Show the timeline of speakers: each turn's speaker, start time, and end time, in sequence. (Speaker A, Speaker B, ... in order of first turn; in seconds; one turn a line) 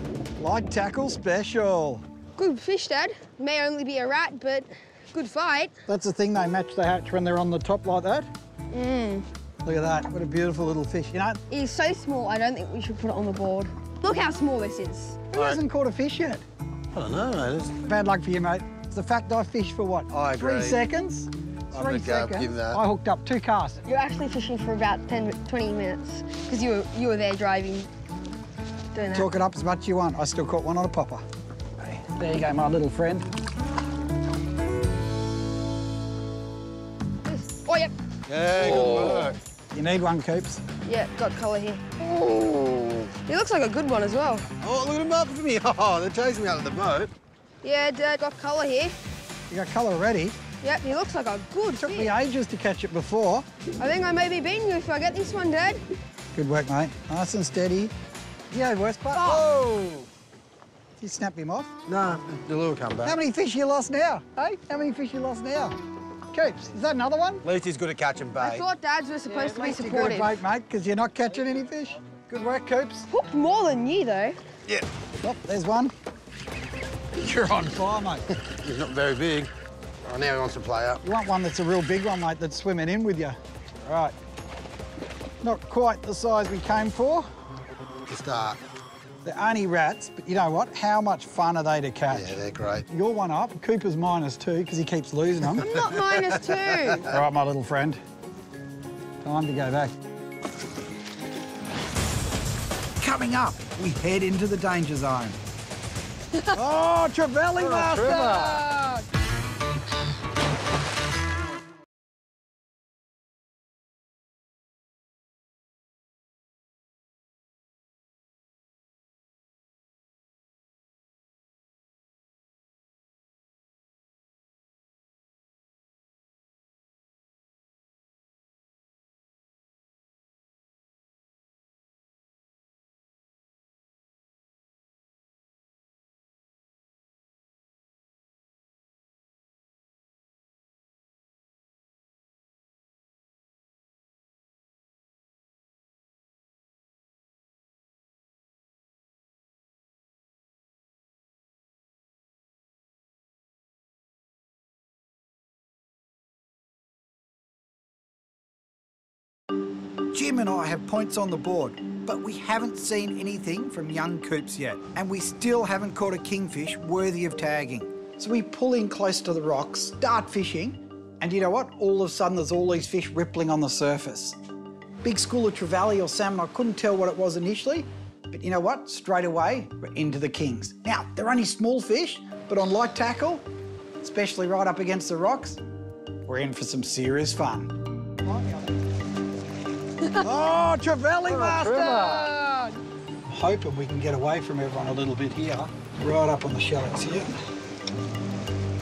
Speaker A: 0.4-2.0
Speaker B: 2.4-5.8
Speaker A: 5.9-8.3
Speaker B: 8.7-9.3
Speaker A: 9.6-11.4
Speaker B: 11.5-15.2
Speaker A: 15.3-16.4
Speaker C: 15.3-15.6
Speaker C: 16.9-17.8
Speaker A: 17.8-23.8
Speaker C: 20.1-20.8
Speaker C: 21.7-22.8
Speaker B: 23.8-27.9
Speaker B: 28.9-29.3
Speaker A: 29.1-31.2
Speaker A: 31.8-33.3
Speaker B: 37.2-37.9
Speaker C: 38.3-39.4
Speaker B: 38.6-39.4
Speaker A: 39.7-40.6
Speaker B: 40.8-44.5
Speaker C: 44.6-47.1
Speaker B: 47.6-49.0
Speaker A: 49.5-50.4
Speaker B: 50.6-52.1
Speaker A: 51.8-53.5
Speaker B: 53.8-55.8
Speaker A: 56.3-57.9
Speaker A: 58.5-60.0
Speaker B: 59.1-59.4
Speaker C: 59.2-59.7
Speaker A: 61.0-61.7
Speaker C: 61.9-63.2
Speaker A: 63.0-65.8
Speaker A: 66.3-67.4
Speaker C: 67.4-68.6
Speaker B: 68.4-70.3
Speaker A: 69.3-73.1
Speaker B: 73.1-74.4
Speaker A: 75.2-75.9
Speaker A: 77.2-78.2
Speaker C: 78.4-79.5
Speaker C: 80.0-81.0
Speaker A: 81.0-84.1
Speaker A: 85.4-87.3
Speaker C: 88.1-88.6
Speaker A: 89.2-95.6
Speaker C: 92.1-92.8
Speaker B: 95.5-97.1
Speaker C: 95.7-97.2
Speaker A: 97.0-98.0
Speaker A: 99.2-99.9
Speaker A: 103.0-105.4
Speaker A: 106.5-108.8
Speaker C: 107.6-108.6
Speaker B: 108.2-109.0
Speaker A: 160.1-174.4
Speaker A: 175.0-183.5
Speaker A: 184.0-185.6
Speaker A: 186.2-188.7
Speaker A: 190.2-192.5
Speaker C: 191.3-192.3
Speaker A: 193.2-197.4